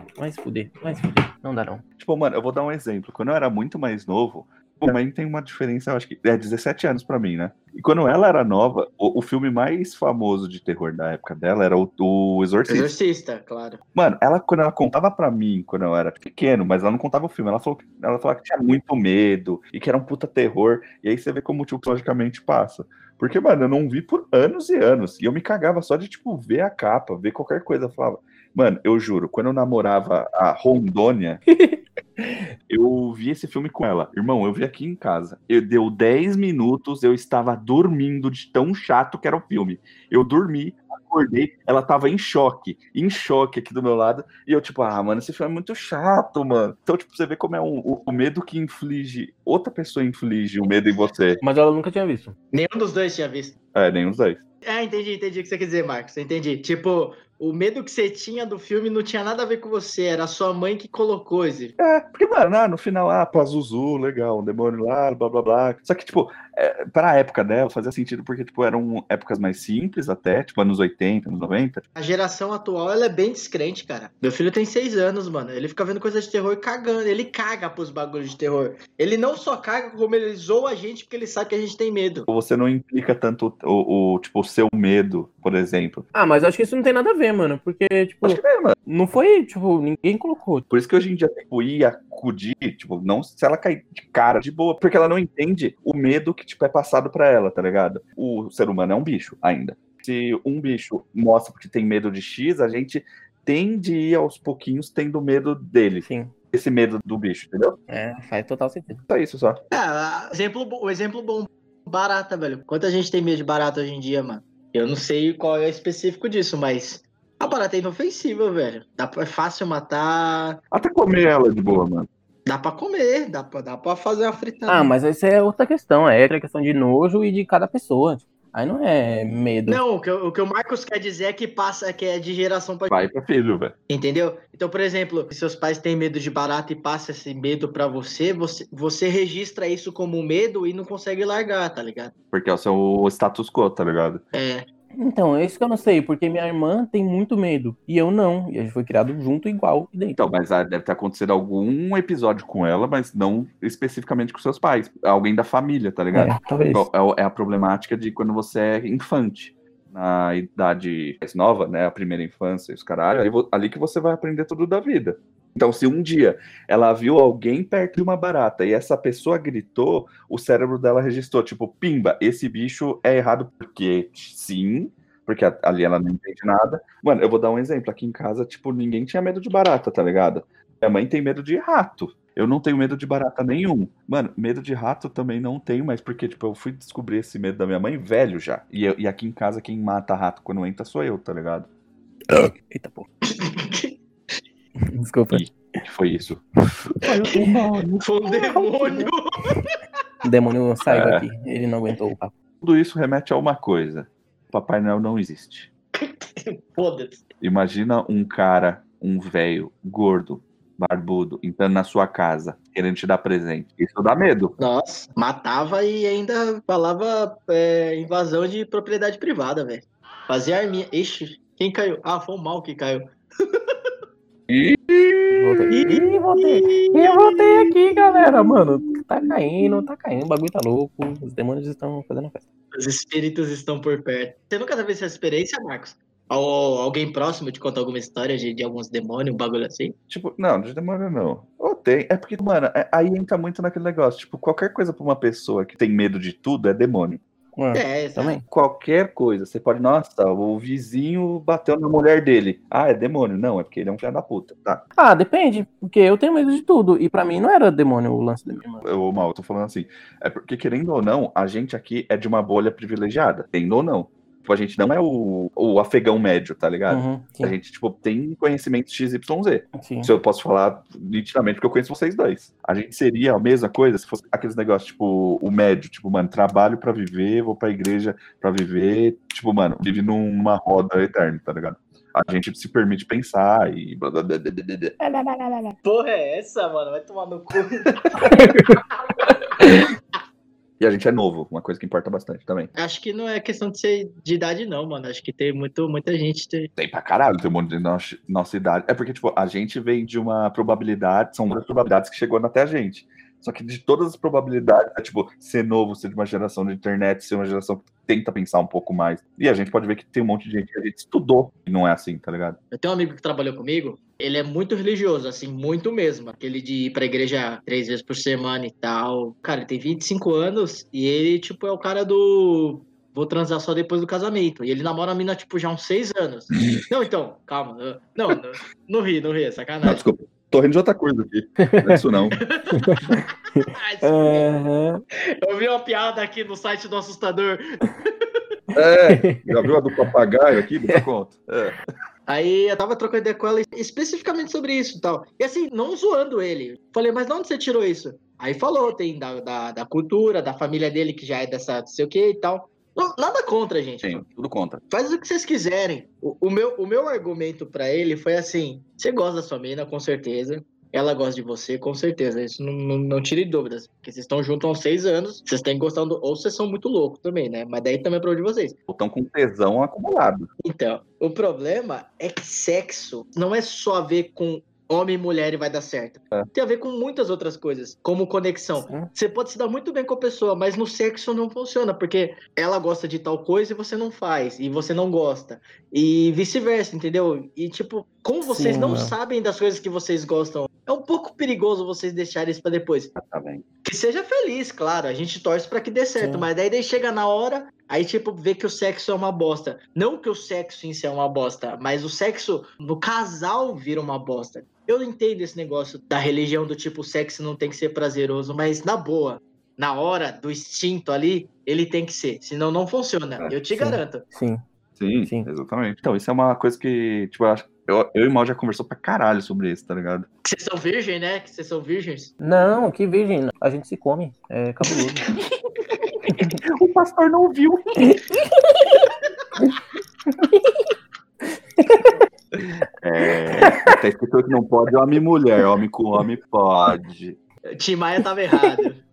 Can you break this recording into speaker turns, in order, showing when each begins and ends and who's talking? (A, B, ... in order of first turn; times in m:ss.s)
0:00.2-0:01.8 A
0:02.0-0:12.9 B
0:12.7-0:13.8 C
0:14.0-0:31.4 B
0:31.5-0:32.5 A
0:32.7-0:51.4 B
0:51.4-0:52.4 A
0:52.5-0:53.6 C
0:53.7-0:54.4 B
0:54.6-1:01.7 C
1:01.8-1:11.8 B
1:12.0-1:22.3 C
1:22.3-1:26.0 B
1:26.1-1:30.7 A
1:28.2-1:28.8 B
1:30.7-1:47.8 B
1:46.0-1:46.3 A
1:47.9-1:49.0 A
1:49.1-1:49.6 B
1:49.7-2:00.6 C
2:00.7-2:02.1 B
2:02.5-2:04.9 C
2:04.7-2:09.8 A
2:09.7-2:12.9 C
2:12.9-2:13.8 B
2:13.9-2:22.1 C
2:22.3-2:24.2 B
2:24.3-2:24.6 C
2:25.0-2:30.2 A
2:30.2-3:11.7 B
2:36.1-2:36.9 A
3:12.3-3:13.1 A
3:13.3-3:14.0 C
3:14.8-3:15.8 A
3:15.3-3:19.1 B
3:18.0-3:19.7 C
3:20.2-3:22.3 A
3:20.9-3:21.3 B
3:22.6-3:25.7 B
3:25.9-3:27.3 C
3:27.4-3:34.6 B
3:34.6-3:43.9 C
3:44.5-3:45.7 B
3:45.3-3:52.4 A
3:45.7-3:47.2 C
3:52.7-4:00.0 C
4:00.1-4:07.2 B
4:07.6-4:08.4 A
4:07.7-4:08.4 C
4:08.5-4:14.8 B
4:15.0-4:18.8 A
4:18.8-4:45.0 B
4:26.9-4:27.6 A
4:29.7-4:30.1 A
4:45.0-4:45.8 A
4:45.8-4:48.4 C
4:48.2-4:48.8 A
4:49.6-4:49.9 A
4:50.8-4:52.7 B
4:52.8-4:56.7 C
4:56.8-5:12.6 B
5:12.7-5:30.0 C
5:29.8-5:32.4 B
5:31.6-5:32.0 A
5:32.4-5:33.0 C
5:32.7-5:35.0 A
5:33.6-5:34.5 C
5:35.2-5:38.4 C
5:38.7-5:41.8 B
5:39.1-5:39.7 A
5:42.3-5:54.2 C
5:54.0-5:54.8 B
5:54.9-6:08.8 C
6:08.9-6:10.5 B
6:10.6-6:33.1 C
6:18.8-6:19.1 A
6:28.4-6:29.2 A
6:33.2-6:33.6 B
6:33.8-6:54.2 C
6:36.2-6:36.5 A
6:53.7-6:54.6 A
6:55.0-7:00.3 B
6:55.2-6:55.5 A
7:00.4-7:02.3 C
7:02.4-7:05.3 A
7:06.6-7:08.0 B
7:08.0-7:09.0 A
7:10.4-7:10.8 A
7:11.8-7:12.1 A
7:13.0-7:17.4 B
7:13.6-7:13.9 A
7:17.7-7:19.0 C